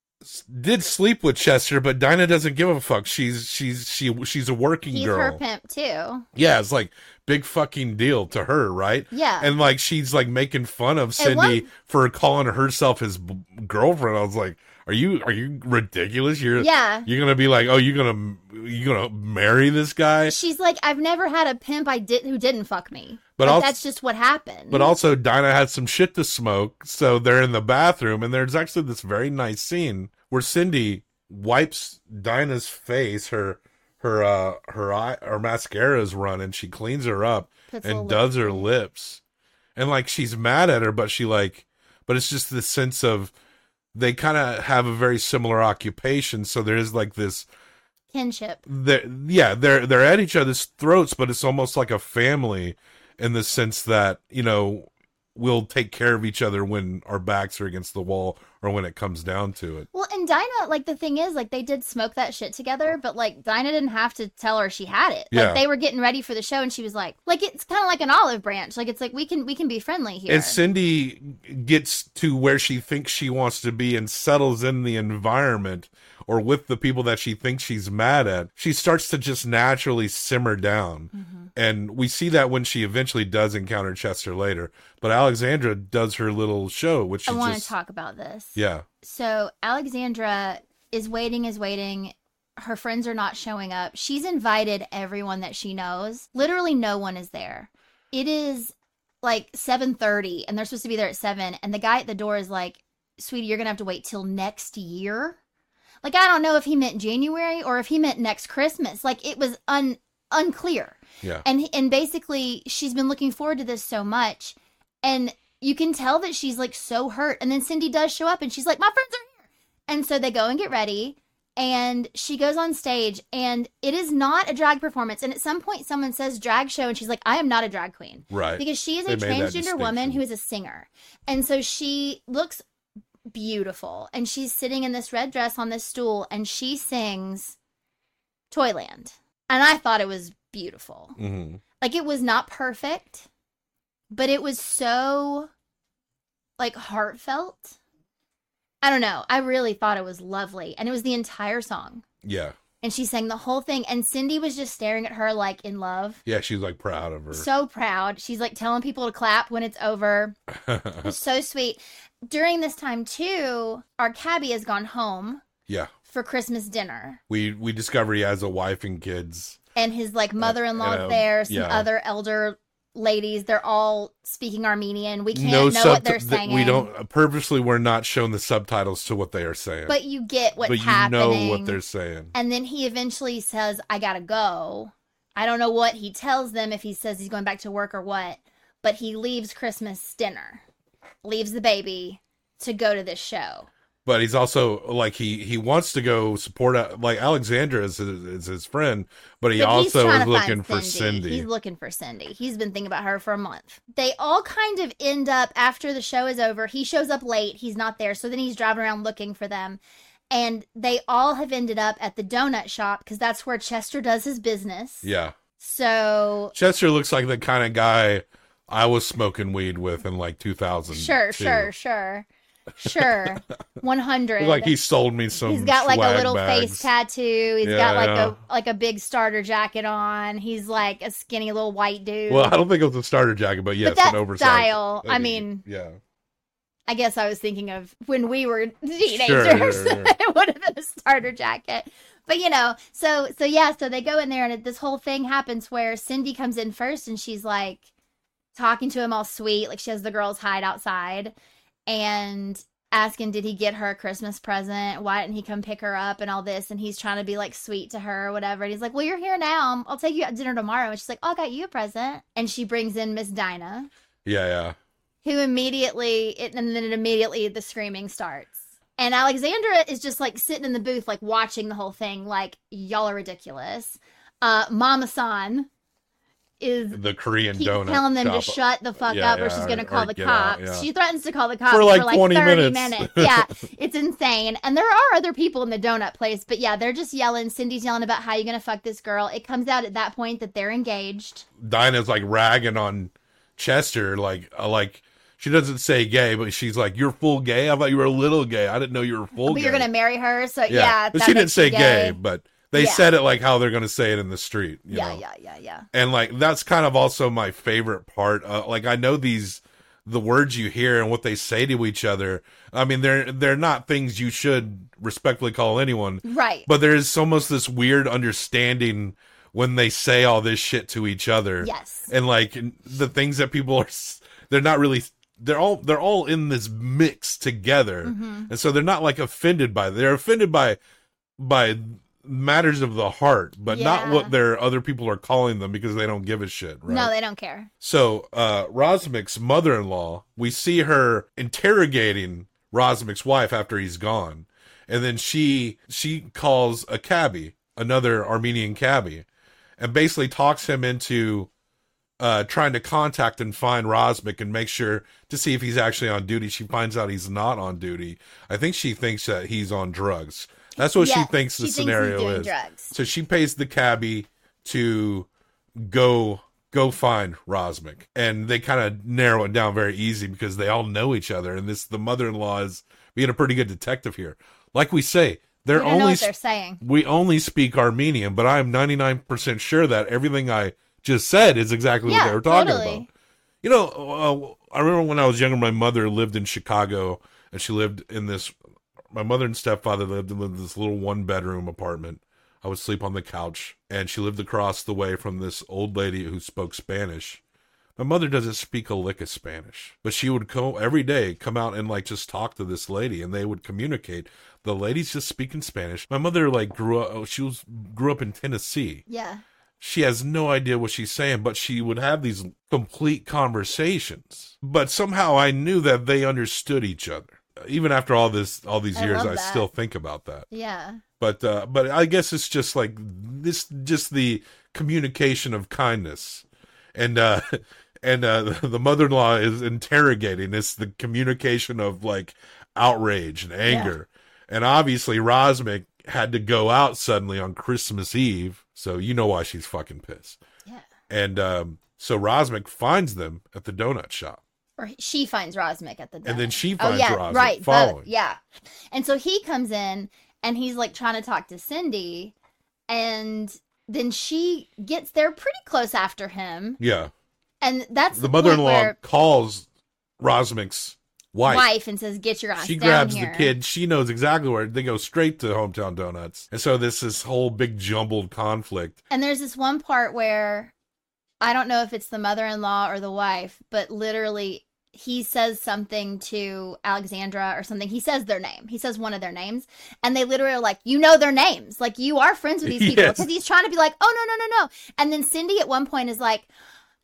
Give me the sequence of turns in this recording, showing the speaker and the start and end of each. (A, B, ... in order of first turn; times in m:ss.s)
0:00.2-0:05.4 A
0:04.9-0:06.2 B
0:06.3-0:20.3 A
0:09.1-0:09.5 B
0:11.2-0:11.7 B
0:16.6-0:17.1 B
0:20.2-0:24.9 B
0:23.4-0:23.7 A
0:24.7-0:39.2 A
0:37.7-0:38.7 B
0:39.8-0:43.3 A
0:43.9-0:47.5 A
0:48.1-0:48.6 B
0:48.7-0:59.9 A
0:59.9-1:10.6 B
1:05.3-1:05.6 A
1:10.3-1:27.7 A
1:21.1-1:21.5 B
1:27.3-1:45.4 B
1:28.6-1:28.8 A
1:46.0-2:12.6 B
2:08.3-2:10.2 A
2:13.3-2:17.6 B
2:18.5-2:21.2 B
2:21.2-2:21.6 A
2:21.8-2:23.3 B
2:24.1-2:25.5 B
2:26.6-2:27.8 B
2:28.8-2:32.0 B
2:32.2-2:32.6 A
2:32.8-2:36.2 B
2:36.2-2:37.4 A
2:37.3-2:40.4 B
2:40.5-2:41.1 A
2:41.0-2:45.4 B
2:46.1-2:47.2 B
2:47.3-2:49.6 A
2:49.8-2:56.9 B
2:50.4-2:51.9 A
2:55.3-3:00.0 A
2:59.9-3:01.8 B
3:00.6-3:02.3 A
3:02.3-3:10.6 B
3:11.2-3:13.7 B
3:14.0-3:21.5 A
3:19.6-3:29.8 B
3:30.3-3:36.5 B
3:35.0-3:35.3 A
3:36.5-3:41.7 A
3:40.9-3:42.2 B
3:42.8-3:44.7 B
3:42.8-3:43.3 A
3:44.4-3:46.9 A
3:45.3-3:52.6 B
3:47.6-3:48.4 A
3:52.3-3:56.0 A
3:53.8-3:55.6 B
3:56.9-4:07.8 B
3:59.0-4:00.1 A
4:08.5-4:11.3 B
4:11.9-4:23.9 B
4:24.2-4:24.8 A
4:25.2-4:35.7 B
4:36.6-4:37.0 B
4:36.9-4:40.9 A
4:37.5-4:51.4 B
4:41.7-4:43.5 A
4:51.6-4:59.9 A
4:59.4-5:02.2 B
5:00.7-5:05.2 A
5:02.7-5:03.1 B
5:04.9-5:05.9 B
5:05.9-5:30.8 A
5:16.2-5:16.7 B
5:21.6-5:22.1 B
5:28.0-5:28.5 B
5:31.4-5:37.1 A
5:33.7-5:34.3 B
5:36.9-5:37.7 B
5:37.8-5:49.2 A
5:49.8-5:51.5 A
5:52.2-6:16.3 A
6:00.8-6:02.9 B
6:15.7-6:16.8 B
6:16.8-6:23.1 A
6:22.0-6:23.1 B
6:23.6-6:28.5 A
6:29.1-6:37.4 A
6:38.0-6:49.0 A
6:49.1-6:49.4 B
6:49.8-7:00.5 A
6:58.9-6:59.7 B
7:00.5-7:01.0 B
7:01.2-7:20.4 A
7:13.7-7:13.9 B
7:21.1-7:24.4 A
7:24.8-7:28.4 B
7:26.2-7:28.1 A
7:28.9-7:32.3 B
7:32.9-7:36.8 B
7:36.8-7:37.1 A
7:37.6-7:39.0 B
7:38.2-7:39.6 A
7:40.2-7:41.7 A
7:41.4-7:43.5 B
7:42.6-7:49.0 A
7:49.1-7:50.7 B
7:51.4-8:06.5 B
8:02.6-8:03.3 A